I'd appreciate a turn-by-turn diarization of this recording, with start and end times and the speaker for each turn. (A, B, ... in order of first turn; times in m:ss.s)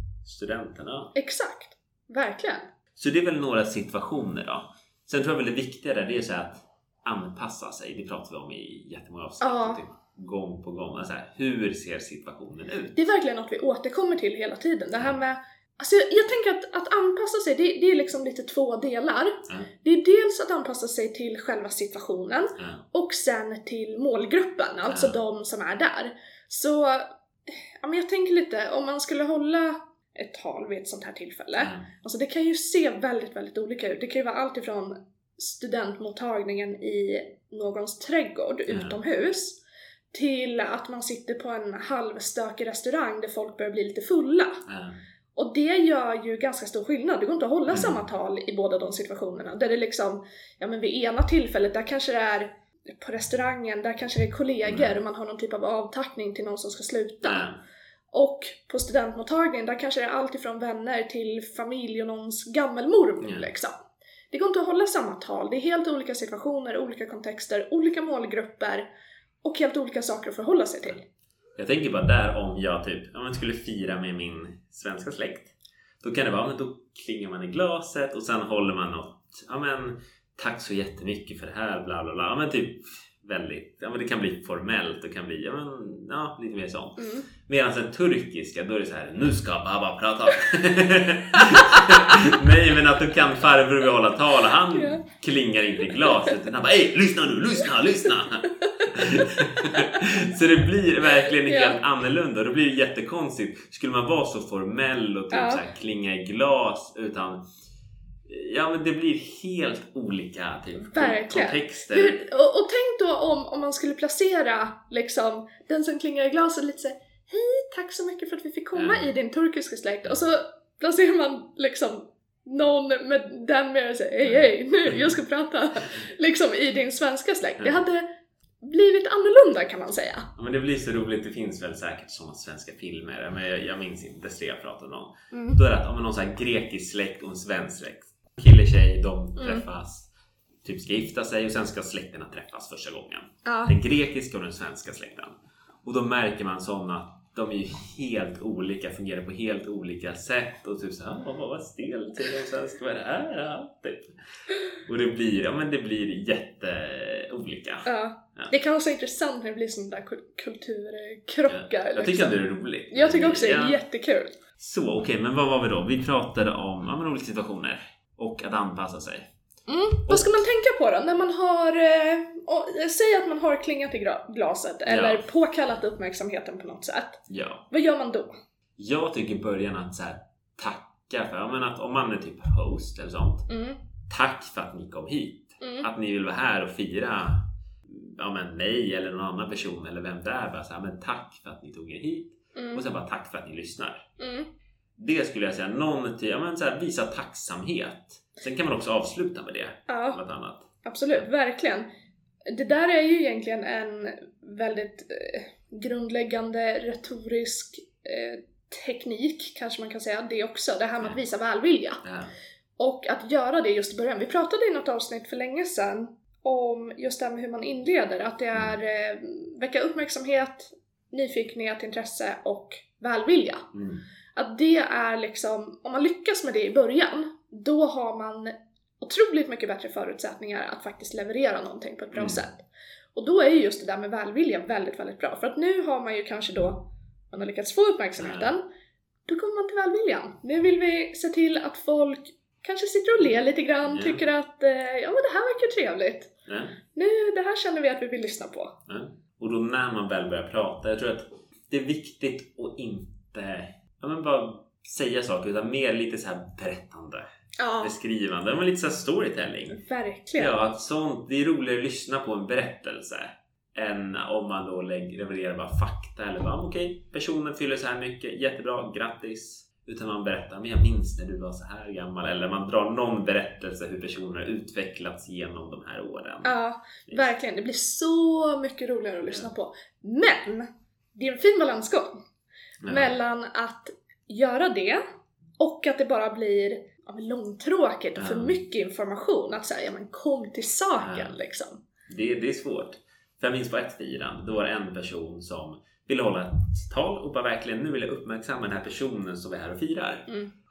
0:00.2-0:01.1 A
0:01.1-0:02.7 B
0:03.0-0:13.0 A
0:09.4-0:09.8 B
0:12.9-0:27.1 B
0:24.9-0:25.2 A
0:27.8-0:39.6 B
0:31.6-0:31.8 A
0:38.7-0:39.0 A
0:40.1-0:44.6 B
0:44.7-0:45.0 A
0:45.3-0:57.4 B
0:47.7-0:48.0 A
0:54.6-0:55.0 A
0:57.2-0:57.6 A
0:58.1-1:03.7 B
1:03.2-1:03.5 A
1:04.3-1:08.9 B
1:09.4-1:11.0 B
1:11.6-1:47.4 A
1:27.0-1:27.3 B
1:31.4-1:32.2 B
1:34.7-1:35.0 B
1:38.6-1:39.8 B
1:41.2-1:41.8 B
1:45.3-1:45.6 B
1:48.3-1:52.2 A
1:50.8-2:08.1 B
1:58.7-1:59.1 A
2:04.2-2:05.1 A
2:08.6-2:10.3 B
2:10.4-2:20.1 A
2:15.3-2:15.6 B
2:19.4-2:19.6 B
2:20.6-2:34.1 A
2:23.4-2:23.7 B
2:34.8-2:38.5 A
2:37.8-2:42.4 B
2:41.5-2:43.8 A
2:42.9-2:44.3 B
2:44.6-2:49.3 A
2:49.7-2:58.3 B
2:50.1-2:50.4 A
2:54.8-2:55.2 A
2:57.3-2:57.6 A
2:58.8-3:03.4 A
3:03.5-3:03.8 B
3:04.1-3:14.0 A
3:05.6-3:05.9 B
3:12.5-3:12.8 B
3:14.2-3:14.5 B
3:15.0-3:21.2 A
3:19.9-3:20.2 B
3:20.8-3:21.9 B
3:22.5-3:32.0 B
3:32.0-3:32.3 A
3:32.8-3:43.7 B
3:43.7-3:44.0 A
3:44.3-3:52.6 B
3:52.1-3:52.4 A
3:53.1-3:58.6 B
3:58.2-3:58.5 A
3:59.3-4:06.3 B
4:03.8-4:04.2 A
4:06.5-4:06.8 A
4:06.9-4:08.8 B
4:08.9-4:17.2 A
4:17.6-4:17.9 B
4:17.8-4:19.8 A
4:19.7-4:20.6 B
4:20.3-4:36.5 A
4:36.4-4:42.2 B
4:37.1-4:37.3 A
4:42.8-4:43.1 A
4:42.9-4:45.0 B
4:45.6-4:51.8 B
4:48.2-4:48.6 A
4:51.0-4:51.3 A
4:52.1-5:00.3 A